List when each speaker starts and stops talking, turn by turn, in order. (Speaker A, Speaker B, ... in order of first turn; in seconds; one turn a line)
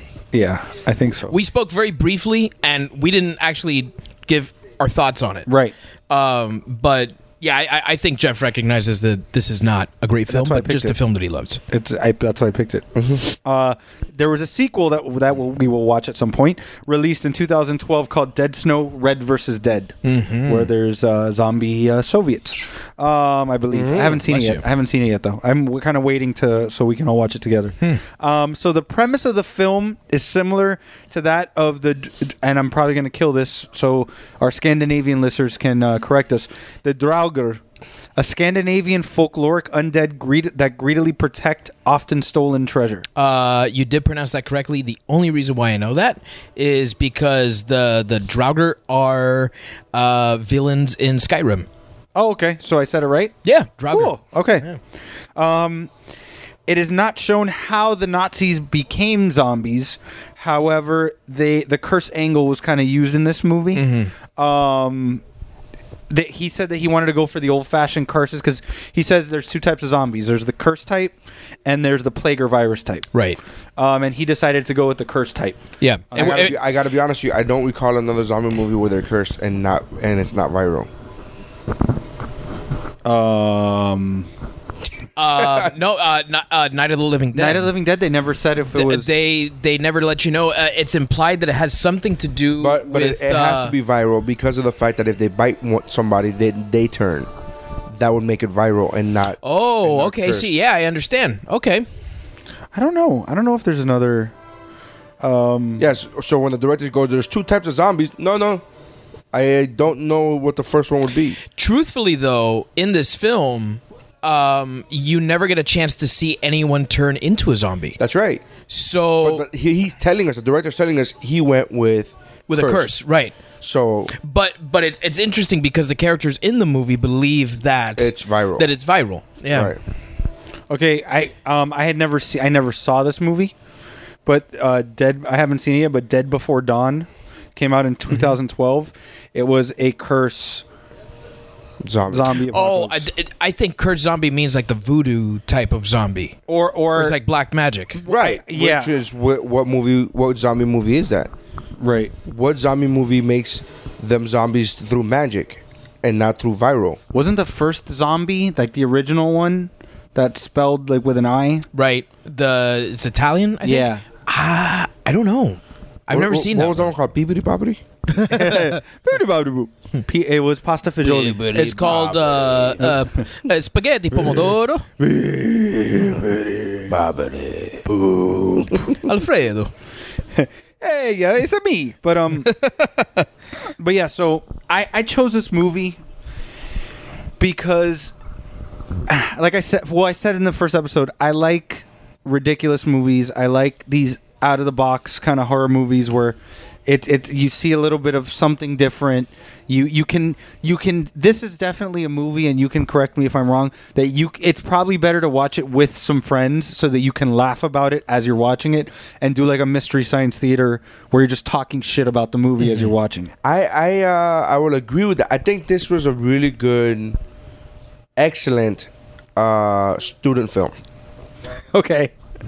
Speaker A: 0.3-1.4
Speaker B: 1.3-5.5
Speaker A: 5.5-5.7
Speaker B: 6.1-11.6
Speaker A: 10.3-11.0
Speaker A: 11.7-37.6
Speaker C: 12.9-13.2
Speaker B: 20.0-20.7
Speaker C: 23.7-24.2
Speaker B: 24.2-24.6
Speaker A: 38.1-43.0
Speaker B: 43.1-51.7
Speaker A: 52.1-53.3
Speaker B: 53.4-54.8
Speaker A: 53.9-54.7
Speaker A: 55.4-55.9
Speaker A: 56.7-65.2
Speaker B: 63.7-64.1
Speaker A: 66.1-73.1
Speaker B: 73.1-73.4
Speaker A: 73.8-75.6
Speaker B: 75.8-76.5
Speaker A: 76.1-76.4
Speaker C: 76.1-80.9
Speaker A: 83.0-84.3
Speaker B: 85.2-87.7
Speaker C: 85.2-85.8
Speaker A: 87.3-89.1
Speaker B: 88.7-93.7
Speaker C: 92.6-97.3
Speaker C: 97.9-100.5
Speaker B: 99.4-101.9
Speaker A: 102.7-104.3
Speaker A: 105.2-105.9
Speaker C: 105.8-108.6
Speaker C: 109.3-111.4
Speaker B: 111.5-118.0
Speaker C: 118.0-118.5
Speaker B: 118.7-119.4
Speaker C: 119.2-122.9
Speaker B: 122.5-123.3
Speaker C: 123.6-124.1
Speaker B: 124.2-129.7
Speaker C: 128.0-128.7
Speaker C: 129.5-129.8
Speaker A: 130.7-133.5
Speaker A: 134.2-140.6
Speaker C: 141.8-142.3
Speaker A: 142.1-143.1
Speaker B: 142.5-146.4
Speaker A: 146.5-147.2
Speaker B: 146.9-148.0
Speaker A: 147.9-148.9
Speaker C: 148.1-151.3
Speaker A: 151.8-152.1
Speaker C: 152.2-157.0
Speaker A: 157.1-161.7
Speaker B: 161.7-166.9
Speaker A: 163.6-164.0
Speaker C: 166.1-167.8
Speaker B: 168.1-168.8
Speaker A: 168.2-171.4
Speaker C: 171.0-172.9
Speaker B: 171.1-174.9
Speaker A: 175.0-176.9
Speaker B: 176.9-177.9
Speaker A: 177.9-178.7
Speaker B: 178.7-179.7
Speaker A: 180.3-182.5
Speaker B: 182.4-183.2
Speaker A: 183.8-186.0
Speaker A: 187.4-188.1
Speaker A: 189.1-213.3
Speaker B: 212.6-212.9
Speaker C: 213.4-217.2
Speaker C: 218.2-220.7
Speaker A: 221.7-222.1